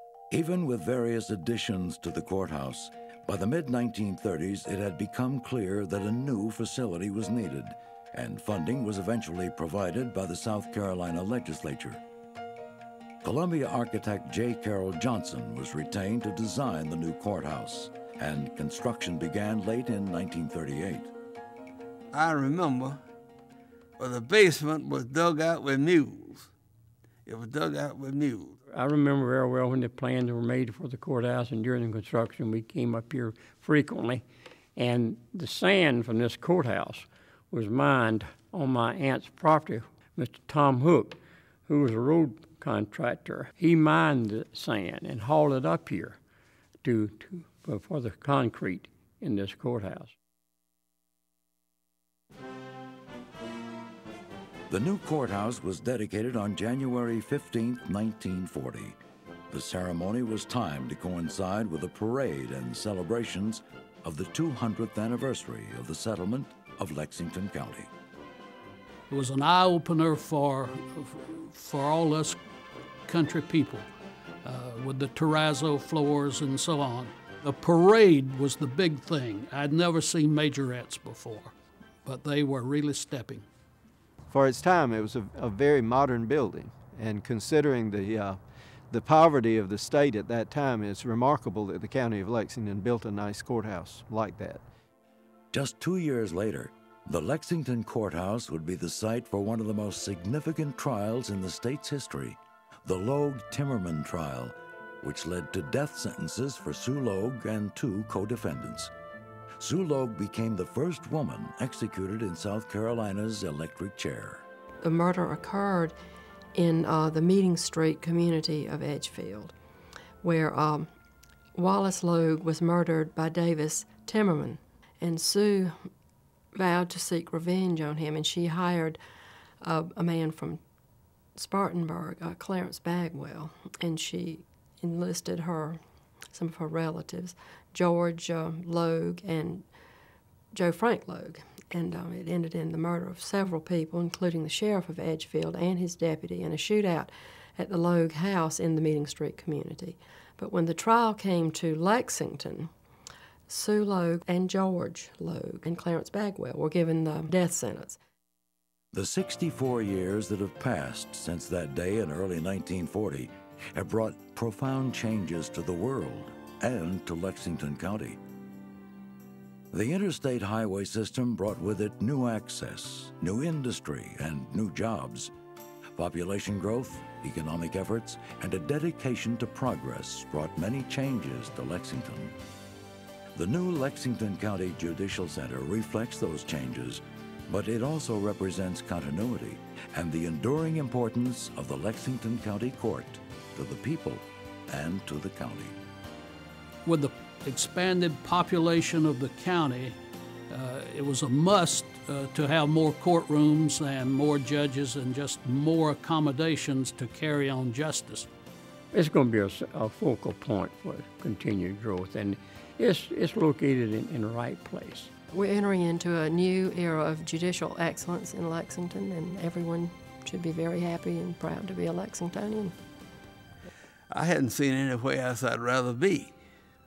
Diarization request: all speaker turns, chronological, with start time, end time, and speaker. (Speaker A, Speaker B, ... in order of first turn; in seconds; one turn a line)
Speaker A: 0.3-12.0
Speaker A: 13.2-21.1
Speaker B: 22.1-23.0
Speaker B: 24.0-26.5
Speaker B: 27.3-28.6
Speaker C: 28.7-34.2
Speaker C: 34.8-46.2
Speaker C: 46.8-50.1
Speaker A: 54.7-59.0
Speaker A: 59.5-67.9
Speaker D: 69.1-72.4
Speaker D: 73.1-73.9
Speaker D: 74.5-81.5
Speaker D: 82.1-83.5
Speaker E: 84.3-88.4
Speaker E: 88.9-94.6
Speaker A: 95.5-108.9
Speaker A: 109.6-114.5
Speaker F: 114.8-116.0
Speaker F: 116.5-119.5
Speaker F: 120.2-120.9
Speaker F: 121.5-125.9
Speaker F: 126.5-129.0
Speaker F: 129.6-130.6
Speaker F: 131.4-135.8
Speaker F: 136.3-139.7
Speaker F: 140.5-152.7
Speaker F: 153.5-158.0
Speaker A: 158.9-168.2
Speaker A: 169.7-175.3
Speaker A: 176.0-182.4
Speaker A: 183.3-195.8
Speaker D: 196.9-200.0
Speaker D: 200.5-208.3
Speaker C: 208.9-215.1
Speaker F: 215.3-222.8
Speaker B: 224.1-226.3